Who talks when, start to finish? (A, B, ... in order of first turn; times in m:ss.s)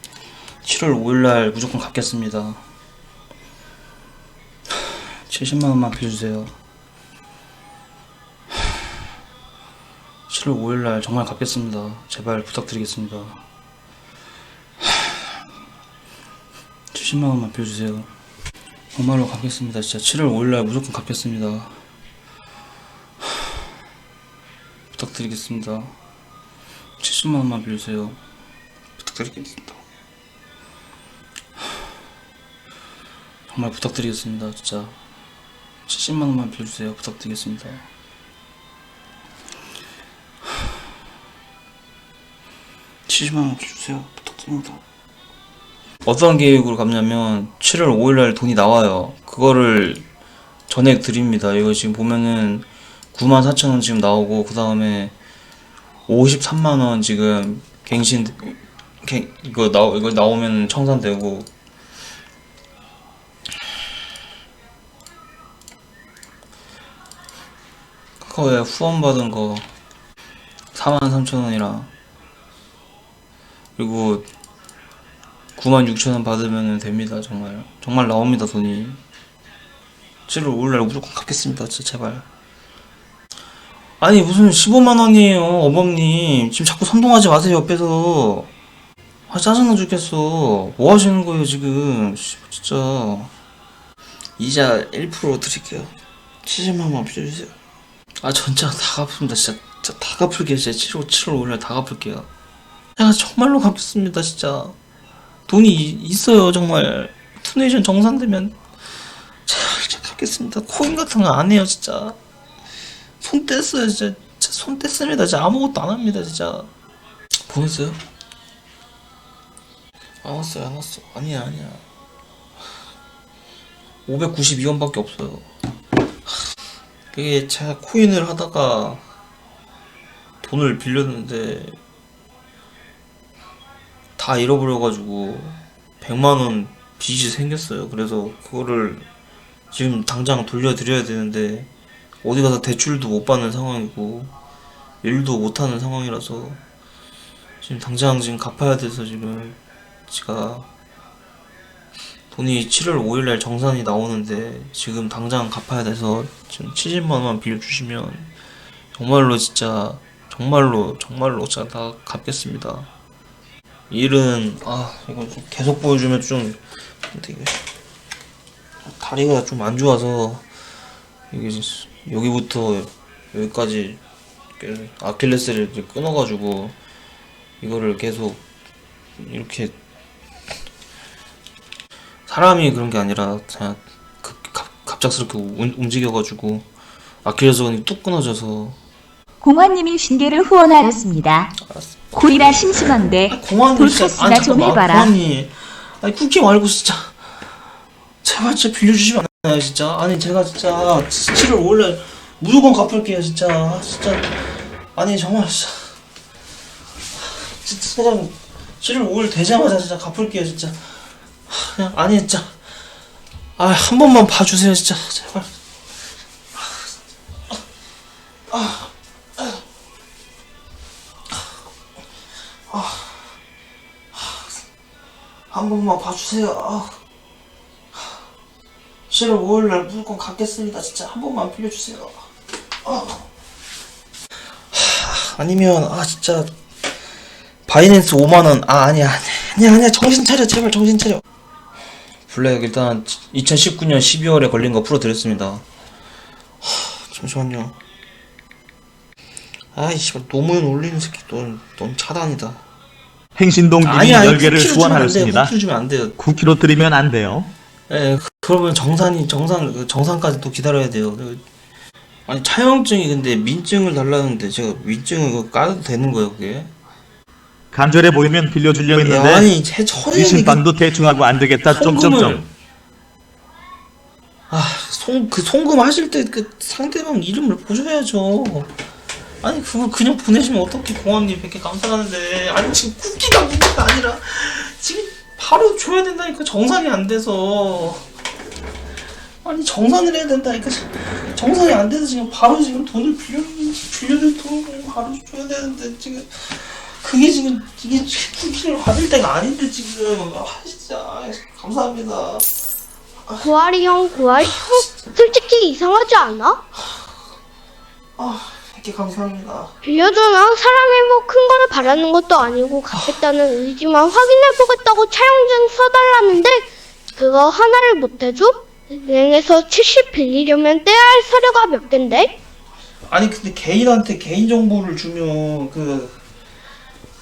0:00.6-0:02.6 A
0:05.3-0:06.5 A
0:10.3-0:13.4 A
0:16.9-0:18.1 A
0:18.9-0:21.7 A
0:24.9-0:25.9 A
0:27.0-0:28.2 A
0:29.0-0:29.8 A
0:33.5-0:35.0 A
0:35.9-0:37.9 A
0:43.1-0:44.8 A
0:46.0-0:50.0 A
0:50.7-0:55.2 A
0:56.1-1:01.5 A
1:08.2-1:09.7 A
1:10.7-1:11.9 A
1:13.8-1:14.3 A
1:15.6-1:19.0 A
1:20.3-1:22.3 A
1:24.0-1:28.5 A
1:29.3-1:33.3 A
1:34.4-1:35.9 A
1:36.4-1:37.5 A
1:38.2-1:42.3 A
1:43.0-1:44.8 A
1:45.5-1:48.6 A
1:49.5-1:52.2 A
1:53.2-1:56.7 A
1:57.5-1:58.0 A
2:00.2-2:01.8 A
2:04.1-2:05.5 A
2:07.1-2:09.0 A
2:10.4-2:11.8 A
2:14.2-2:19.1 A
2:19.7-2:21.7 A
2:22.2-2:24.3 A
2:25.0-2:26.6 A
2:27.6-2:30.7 A
2:32.3-2:38.3 A
2:39.0-2:42.9 A
2:43.9-2:47.6 A
2:48.9-2:50.4 A
2:51.3-2:54.0 A
2:54.6-2:56.8 A
2:57.6-2:58.4 A
2:59.2-2:59.8 A
3:02.3-3:06.7 A
3:07.2-3:08.8 A
3:09.4-3:11.5 B
3:11.6-3:12.0 A
3:12.1-3:15.1 B
3:13.3-3:17.2 A
3:18.2-3:24.4 A
3:24.9-3:26.0 A
3:27.5-3:31.0 A
3:31.5-3:32.6 A
3:33.6-3:35.5 A
3:36.6-3:36.9 A
3:38.5-3:39.6 A
3:42.7-3:43.4 A
3:44.1-3:44.6 A
3:45.5-3:47.0 A
3:49.1-3:52.3 A
3:52.8-3:53.3 A
3:54.7-3:56.5 A
3:57.7-4:01.2 A
4:02.3-4:05.6 A
4:06.6-4:07.8 A
4:09.7-4:12.6 A
4:13.4-4:15.5 C
4:13.8-4:16.2 A
4:16.2-4:17.5 C
4:17.9-4:21.4 A
4:22.3-4:26.7 A
4:27.7-4:29.5 C
4:28.9-4:30.6 A
4:30.1-4:32.4 C
4:31.7-4:32.5 A
4:34.5-4:38.7 A
4:39.4-4:48.0 A
4:49.4-5:02.4 A
5:03.4-5:06.6 D
5:04.4-5:04.7 A
5:08.2-5:09.7 A
5:09.8-5:22.3 D
5:23.1-5:26.2 A